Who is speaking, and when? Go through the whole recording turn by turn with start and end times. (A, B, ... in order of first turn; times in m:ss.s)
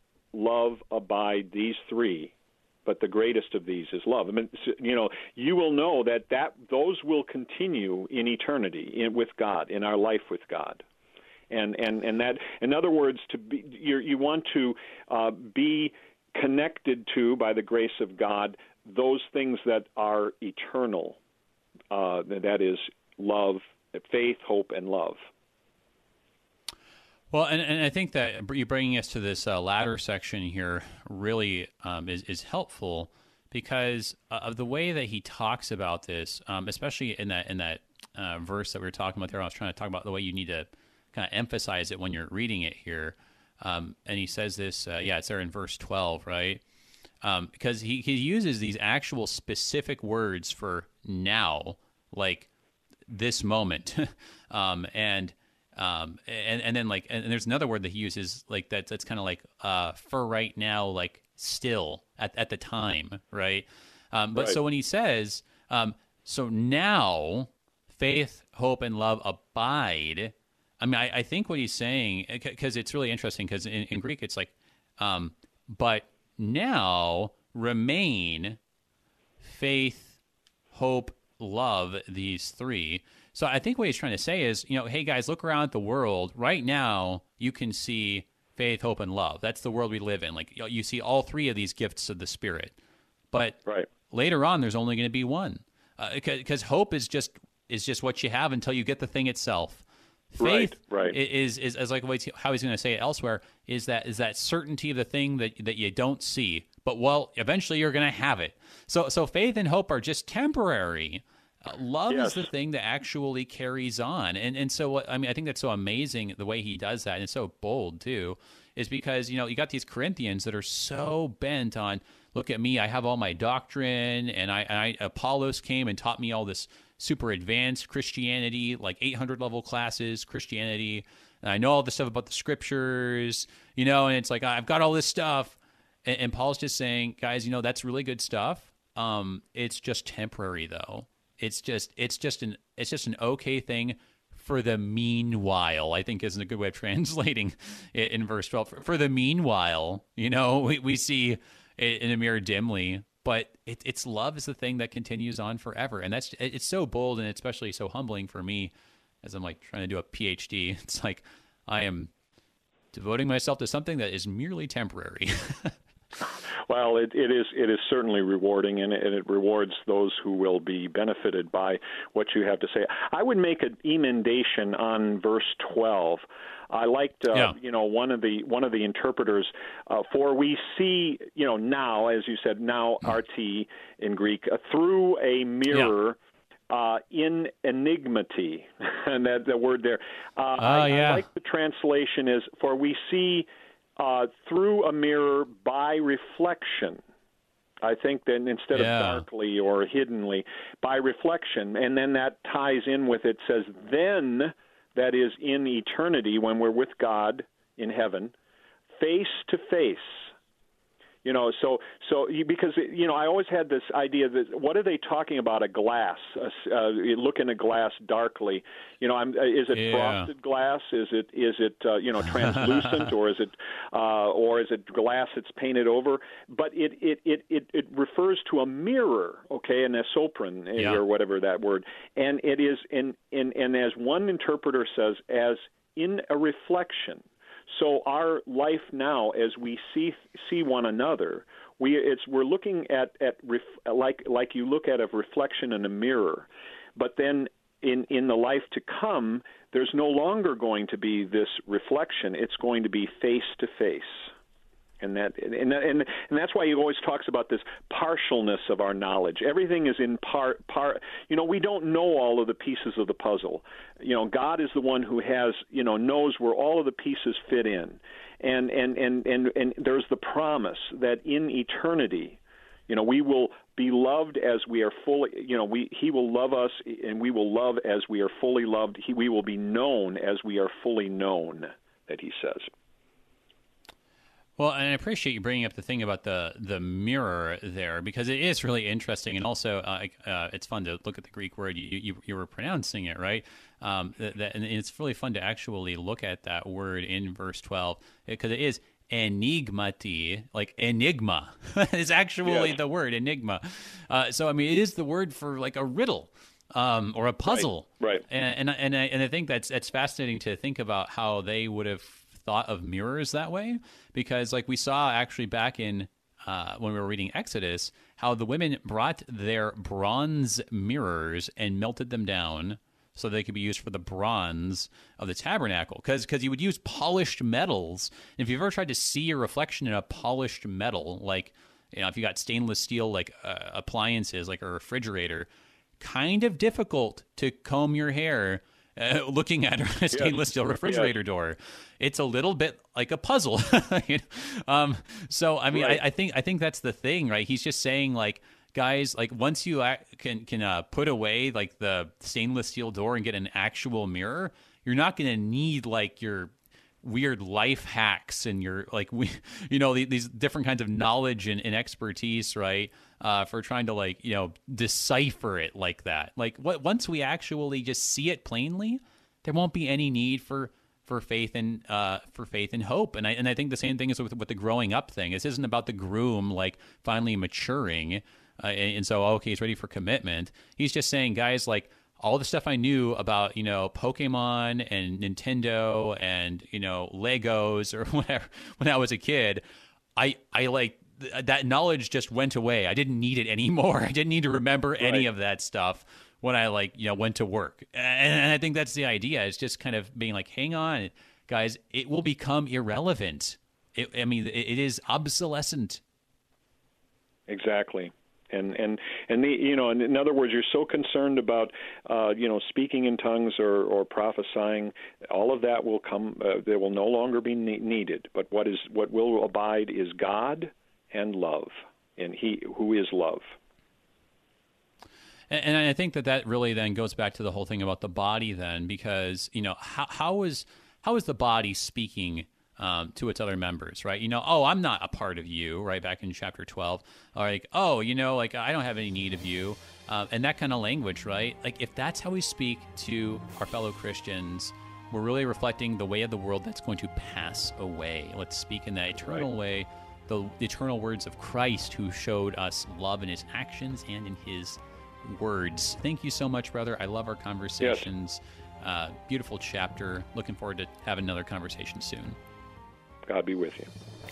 0:00.3-0:02.3 A
0:02.9-0:10.8 A
0:11.5-0:21.2 A
0:21.9-0:25.3 A
0:27.3-0:46.6 B
0:47.2-0:52.5 B
0:53.1-1:18.6 B
1:19.4-1:20.2 B
1:20.7-1:32.8 B
1:33.3-2:42.1 B
1:40.4-1:41.2 A
1:52.1-1:52.5 A
2:42.9-2:45.8 B
2:46.7-3:06.2 A
3:06.7-3:17.0 A
3:10.6-3:11.2 B
3:17.8-3:28.3 A
3:18.7-3:19.2 B
3:29.0-3:30.3 A
3:31.2-4:14.3 A
3:39.7-3:40.3 B
3:42.5-3:42.9 B
4:15.0-4:42.7 A
4:44.6-5:35.5 B
5:02.4-5:02.8 A
5:07.5-5:08.2 A
5:36.0-6:29.6 B
5:40.8-5:41.1 A
5:45.7-5:46.0 A
6:30.2-6:46.0 B
6:35.0-6:35.3 A
6:47.5-7:03.6 A
7:05.5-7:42.4 B
7:37.8-7:38.1 A
7:43.3-7:43.9 A